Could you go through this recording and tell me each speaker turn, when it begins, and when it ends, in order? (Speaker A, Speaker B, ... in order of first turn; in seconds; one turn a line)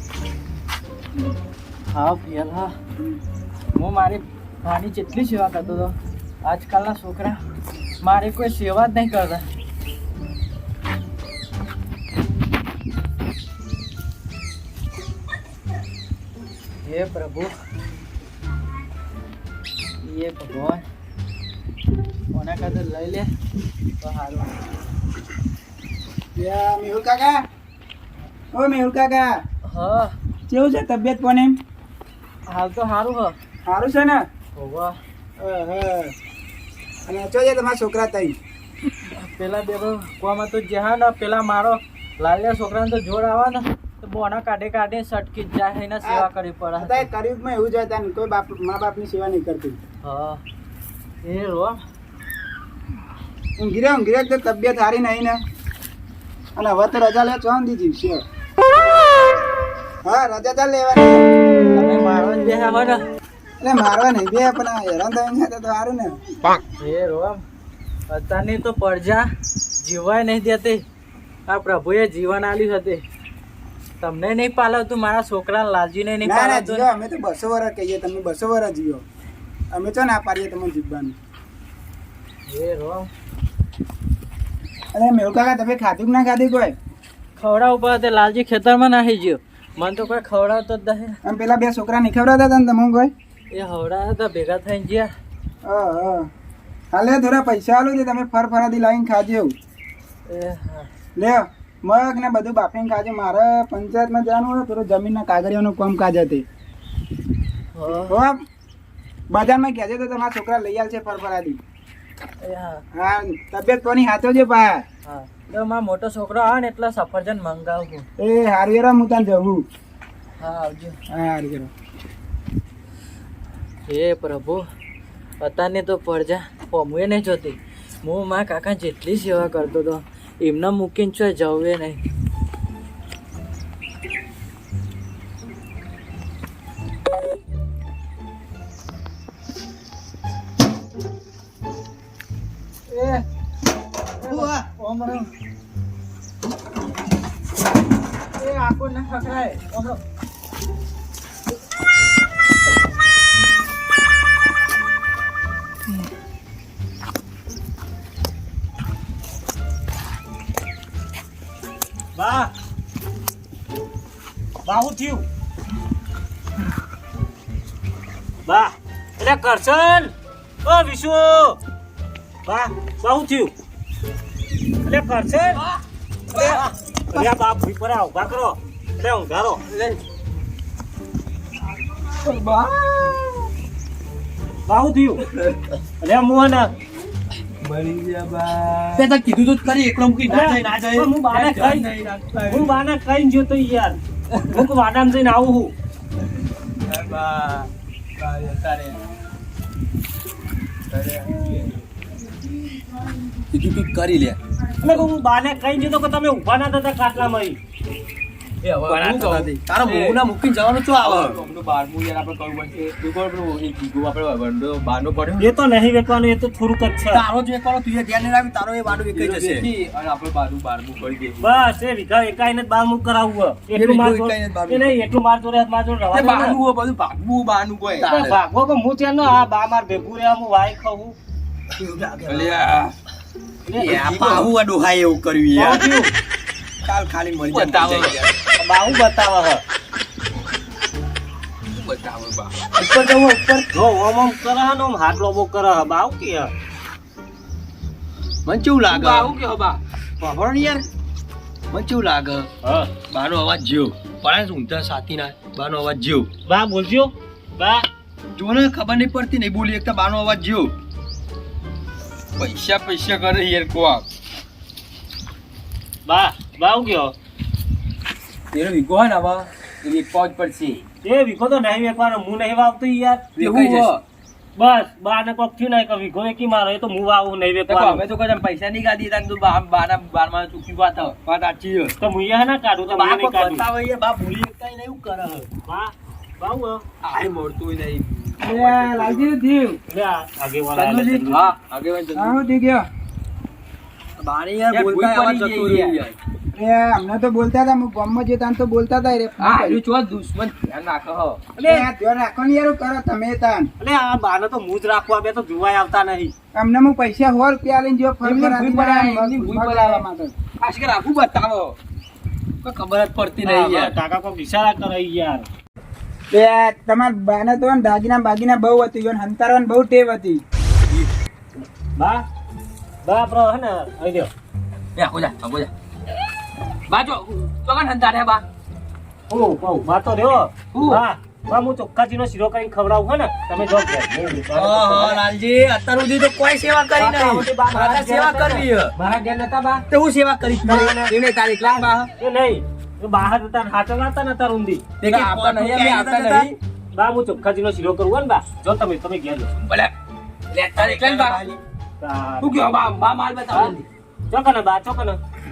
Speaker A: 1.9-2.7
Speaker A: 3.7-7.4
Speaker A: 8.0-9.4
Speaker A: 16.9-17.5
Speaker A: 20.0-20.8
Speaker A: 22.3-23.3
Speaker A: 24.0-24.7
Speaker B: 26.4-27.4
Speaker B: 28.5-29.4
Speaker A: 29.7-30.1
Speaker B: 30.5-31.6
Speaker A: 32.5-33.3
Speaker B: 33.7-34.2
Speaker A: 34.5-35.0
Speaker B: 35.4-36.1
Speaker B: 37.1-38.4
Speaker A: 39.1-47.1
Speaker B: 46.0-49.8
Speaker A: 50.0-50.4
Speaker A: 51.2-51.8
Speaker B: 53.6-55.4
Speaker B: 56.5-58.2
Speaker B: 60.0-61.2
Speaker A: 61.7-63.0
Speaker B: 63.6-66.2
Speaker A: 66.8-67.4
Speaker A: 68.1-69.3
Speaker A: 69.8-70.8
Speaker A: 71.5-73.0
Speaker A: 74.0-76.9
Speaker B: 76.2-79.0
Speaker B: 79.7-81.2
Speaker A: 82.5-83.1
Speaker B: 84.9-86.8
Speaker A: 87.4-91.2
Speaker B: 91.2-93.1
Speaker A: 93.5-95.1
Speaker B: 95.6-96.3
Speaker B: 96.9-99.5
Speaker A: 100.3-100.9
Speaker B: 101.2-106.4
Speaker A: 107.7-108.2
Speaker B: 107.9-108.4
Speaker B: 109.3-111.6
Speaker A: 112.4-112.8
Speaker B: 112.9-114.8
Speaker A: 115.0-118.0
Speaker B: 118.2-119.7
Speaker A: 120.4-121.0
Speaker B: 121.1-121.7
Speaker A: 123.9-124.7
Speaker A: 125.4-132.0
Speaker A: 142.9-143.2
Speaker A: 144.2-145.3
Speaker A: 148.4-150.0
Speaker C: 162.2-162.5
Speaker C: 164.6-165.2
Speaker C: 168.4-170.1
Speaker C: 170.6-171.6
Speaker C: 172.5-173.5
Speaker C: 174.8-175.6
Speaker C: 176.3-179.6
Speaker D: 179.7-180.0
Speaker D: 182.2-183.2
Speaker C: 184.7-185.2
Speaker C: 186.0-186.7
Speaker D: 187.6-189.1
Speaker E: 188.9-191.7
Speaker C: 190.3-191.9
Speaker D: 191.3-192.8
Speaker C: 192.5-195.7
Speaker D: 196.9-199.0
Speaker D: 200.9-201.8
Speaker E: 203.5-204.4
Speaker C: 204.8-207.6
Speaker D: 208.6-210.2
Speaker E: 208.9-211.4
Speaker D: 211.0-215.5
Speaker C: 215.4-217.2
Speaker E: 217.1-219.7
Speaker D: 219.1-221.4
Speaker C: 221.4-226.6
Speaker E: 223.7-225.0
Speaker D: 226.1-228.4
Speaker C: 228.0-231.2
Speaker E: 231.7-232.6
Speaker D: 232.3-232.9
Speaker C: 233.7-234.0
Speaker E: 233.8-235.9
Speaker D: 233.9-234.5
Speaker C: 235.6-236.1
Speaker E: 236.8-238.2
Speaker D: 237.5-238.3
Speaker C: 238.6-239.6
Speaker D: 241.7-242.6
Speaker E: 242.7-243.7
Speaker C: 243.7-246.5
Speaker E: 248.4-249.3
Speaker D: 248.9-249.8
Speaker E: 250.2-250.8
Speaker E: 251.7-252.5
Speaker C: 252.6-252.9
Speaker E: 253.1-256.3
Speaker C: 256.4-257.9
Speaker E: 258.3-260.7
Speaker D: 262.4-264.0
Speaker C: 266.1-267.1
Speaker D: 268.5-270.8
Speaker C: 271.0-273.3
Speaker E: 273.4-274.0
Speaker D: 273.4-274.0
Speaker C: 274.6-278.0
Speaker D: 277.7-281.9
Speaker C: 282.0-283.6
Speaker E: 282.9-285.5
Speaker C: 285.6-286.8
Speaker D: 287.0-289.8
Speaker B: 288.4-289.3
Speaker C: 289.9-291.5
Speaker E: 290.8-291.3
Speaker D: 291.2-292.4
Speaker B: 292.1-292.9
Speaker E: 294.2-296.1
Speaker D: 294.7-296.0
Speaker B: 296.5-299.8
Speaker D: 299.4-301.4
Speaker C: 301.6-301.9
Speaker B: 301.6-303.7
Speaker C: 303.8-306.3
Speaker B: 306.5-310.3
Speaker D: 308.2-310.0
Speaker D: 310.6-311.7
Speaker E: 312.6-313.4
Speaker D: 312.7-313.9
Speaker C: 313.4-315.5
Speaker B: 316.3-320.4
Speaker C: 321.9-322.2
Speaker C: 323.0-324.3
Speaker D: 325.0-325.7
Speaker D: 326.9-328.4
Speaker C: 329.3-335.2
Speaker D: 330.7-331.0
Speaker E: 334.5-338.9
Speaker C: 337.3-338.0
Speaker D: 338.9-339.8
Speaker E: 339.9-341.9
Speaker C: 340.6-341.1
Speaker D: 341.1-342.1
Speaker C: 342.2-344.8
Speaker D: 345.0-346.5
Speaker E: 345.0-346.5
Speaker B: 345.1-346.4
Speaker C: 346.9-349.5
Speaker D: 349.6-349.9
Speaker D: 350.5-351.4
Speaker E: 350.7-351.6
Speaker C: 352.0-352.6
Speaker D: 352.4-353.9
Speaker C: 354.3-355.2